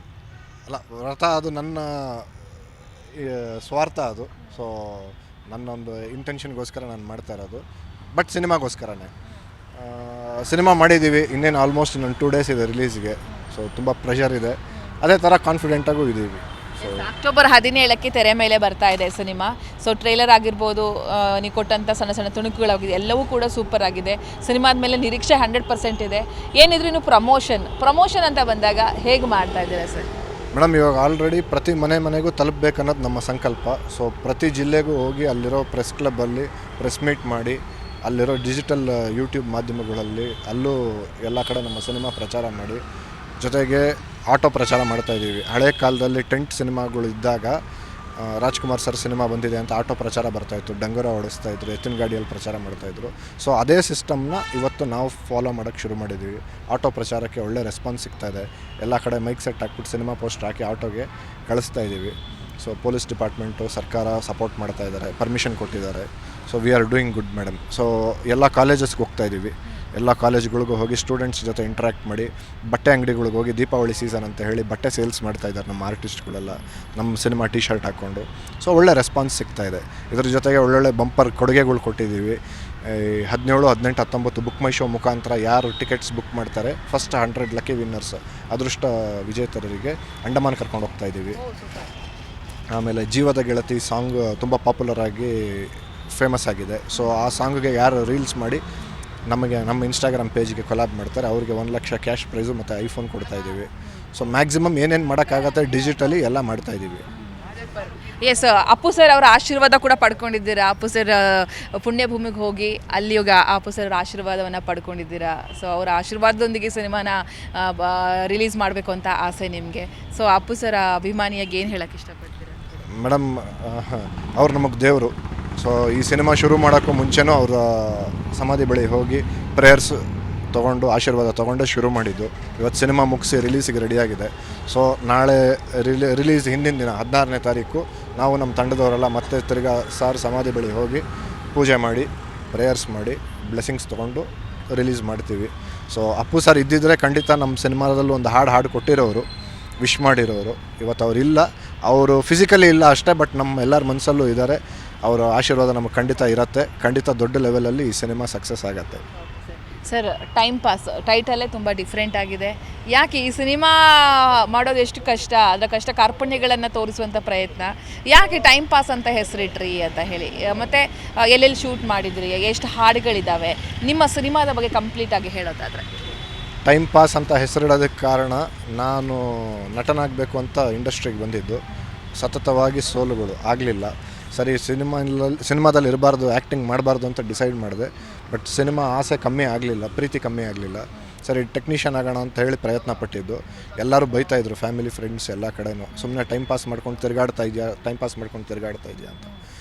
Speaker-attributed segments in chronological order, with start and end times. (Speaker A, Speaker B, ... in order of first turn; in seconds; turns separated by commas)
Speaker A: 0.7-2.3, Speaker A: 3.1-7.6, Speaker A: 8.1-9.1, Speaker A: 9.8-17.1, Speaker B: 16.8-30.1, Speaker A: 30.5-42.8, Speaker A: 43.4-47.6, Speaker A: 48.2-91.4, Speaker B: 91.3-91.9, Speaker A: 92.7-98.6, Speaker B: 97.0-97.2, Speaker A: 99.3-107.0, Speaker B: 107.2-122.9, Speaker A: 122.9-149.3, Speaker A: 149.8-159.0, Speaker B: 159.8-175.9, Speaker A: 176.7-181.6, Speaker A: 182.2-199.2